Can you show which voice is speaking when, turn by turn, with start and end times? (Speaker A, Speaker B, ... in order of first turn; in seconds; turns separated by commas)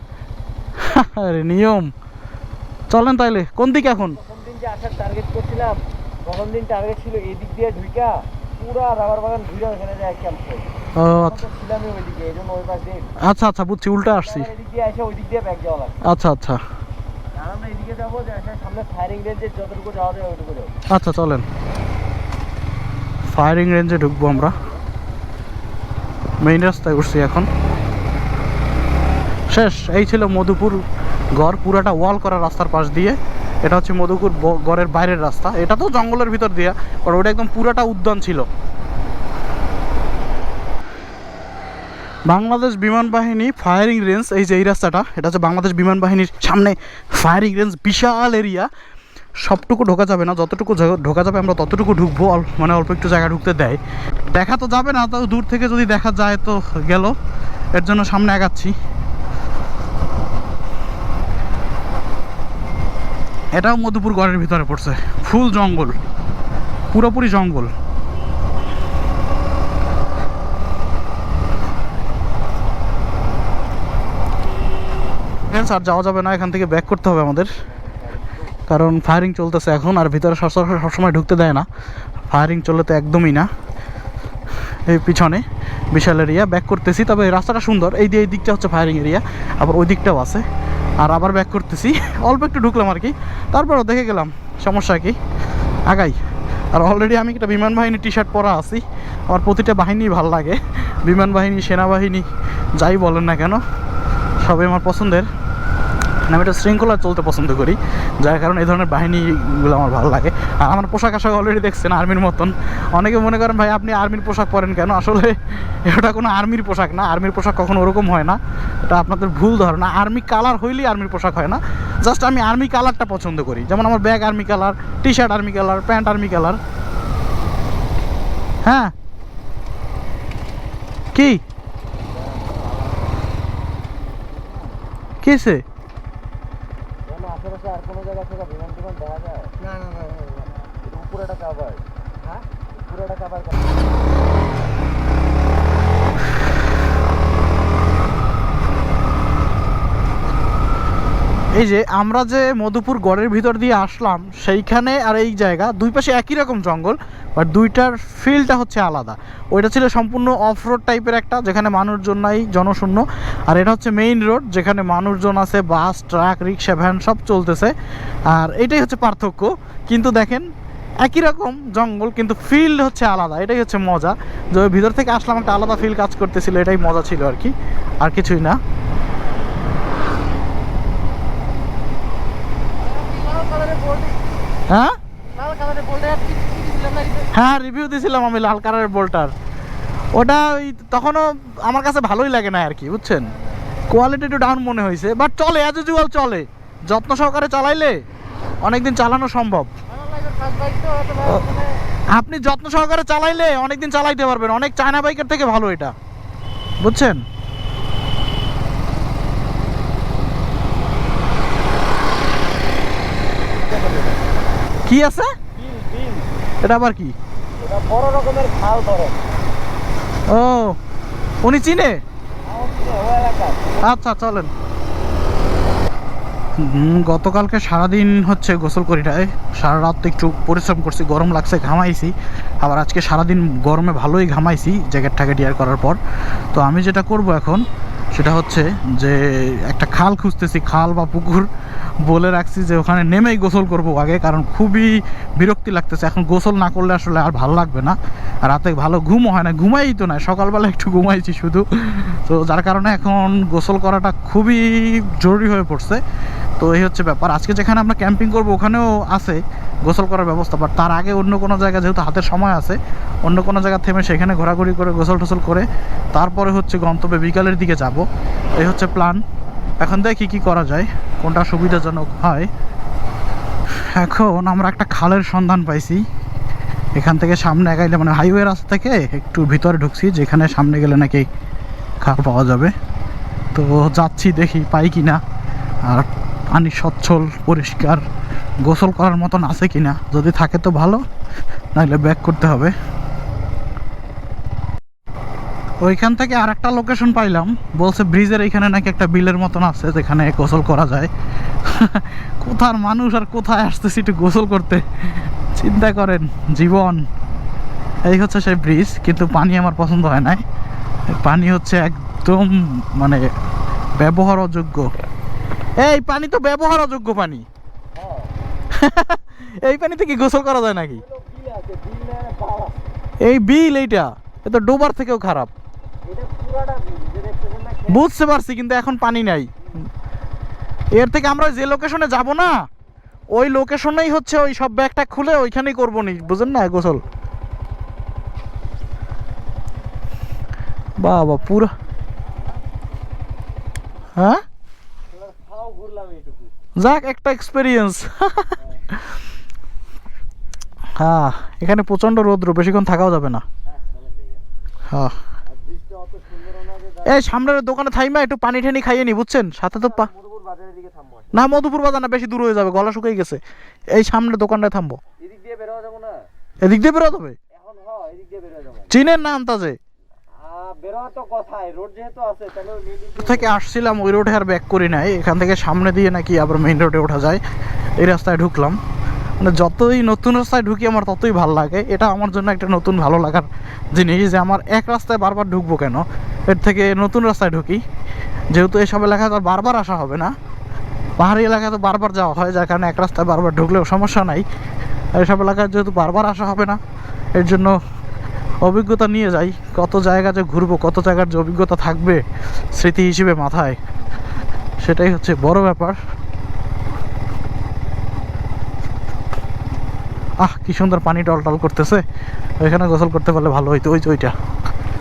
Speaker A: 0.8-1.9, Speaker A: 2.9-4.2, Speaker B: 4.2-13.1, Speaker A: 11.0-11.4, Speaker A: 13.2-14.5, Speaker B: 14.1-15.9, Speaker A: 16.0-16.6, Speaker B: 17.3-20.7, Speaker A: 20.9-21.4, Speaker A: 23.3-24.6, Speaker A: 26.4-27.5, Speaker A: 29.5-30.8, Speaker A: 31.3-38.5, Speaker A: 42.3-48.7, Speaker A: 49.4-53.8, Speaker A: 54.3-57.1, Speaker A: 57.7-58.7, Speaker A: 63.5-66.0, Speaker A: 66.9-67.7, Speaker A: 75.5-77.5, Speaker A: 78.7-81.7, Speaker A: 82.3-83.5, Speaker A: 84.9-90.4, Speaker A: 91.0-95.2, Speaker A: 95.9-96.2, Speaker A: 96.7-102.2, Speaker A: 102.8-103.6, Speaker A: 104.4-105.3, Speaker A: 106.3-126.6, Speaker A: 128.6-128.9, Speaker A: 131.1-131.4, Speaker B: 132.1-133.2, Speaker A: 135.2-135.6, Speaker B: 137.1-139.7, Speaker B: 140.8-143.8, Speaker A: 151.6-167.7, Speaker A: 168.3-170.4, Speaker A: 171.0-178.6, Speaker C: 182.9-184.3, Speaker A: 184.7-185.0, Speaker C: 185.4-187.2, Speaker A: 187.3-189.3, Speaker A: 190.1-193.3, Speaker A: 193.9-198.0, Speaker A: 198.6-199.7, Speaker C: 200.0-201.2, Speaker A: 201.2-201.5, Speaker A: 202.1-205.9, Speaker A: 206.8-207.2, Speaker B: 213.6-214.2, Speaker A: 214.8-215.3, Speaker B: 215.6-216.3, Speaker A: 216.6-217.1, Speaker B: 217.6-219.2, Speaker A: 220.3-220.8, Speaker A: 221.4-222.0, Speaker B: 222.4-223.8, Speaker A: 223.8-224.5, Speaker A: 226.6-236.0, Speaker A: 236.5-241.5, Speaker A: 242.0-256.0, Speaker A: 256.6-268.0, Speaker A: 268.6-269.2, Speaker A: 269.8-272.5, Speaker A: 273.9-276.0, Speaker A: 276.9-281.3, Speaker A: 282.0-282.7, Speaker A: 283.5-285.2, Speaker A: 285.9-288.0, Speaker A: 288.6-291.0, Speaker A: 291.7-292.7, Speaker A: 295.8-301.1, Speaker A: 301.6-307.1, Speaker A: 308.1-310.4, Speaker A: 311.1-313.2, Speaker A: 314.0-314.9, Speaker A: 315.8-317.4, Speaker B: 317.9-318.3, Speaker A: 318.7-321.0, Speaker B: 321.0-322.8, Speaker A: 323.2-325.5, Speaker B: 326.1-328.0, Speaker A: 327.9-329.5, Speaker A: 331.0-332.6, Speaker A: 333.3-337.0, Speaker A: 341.0-341.7, Speaker A: 344.2-344.4, Speaker B: 345.1-346.5, Speaker A: 346.8-348.6, Speaker A: 351.0-353.4, Speaker B: 353.7-354.4, Speaker A: 354.9-355.1, Speaker B: 355.5-357.2, Speaker A: 357.0-360.1, Speaker B: 359.8-361.3, Speaker A: 361.3-363.4, Speaker A: 363.9-365.0, Speaker B: 365.2-366.2, Speaker A: 366.6-367.4, Speaker B: 367.5-369.0, Speaker A: 368.9-369.8, Speaker B: 370.4-373.6, Speaker A: 373.2-377.4, Speaker A: 378.0-378.8, Speaker A: 379.4-387.8, Speaker A: 388.5-390.3, Speaker A: 391.2-394.4, Speaker A: 395.1-396.8, Speaker A: 397.3-397.8, Speaker A: 398.6-403.8, Speaker A: 404.8-405.9, Speaker A: 410.4-412.0, Speaker A: 412.6-414.3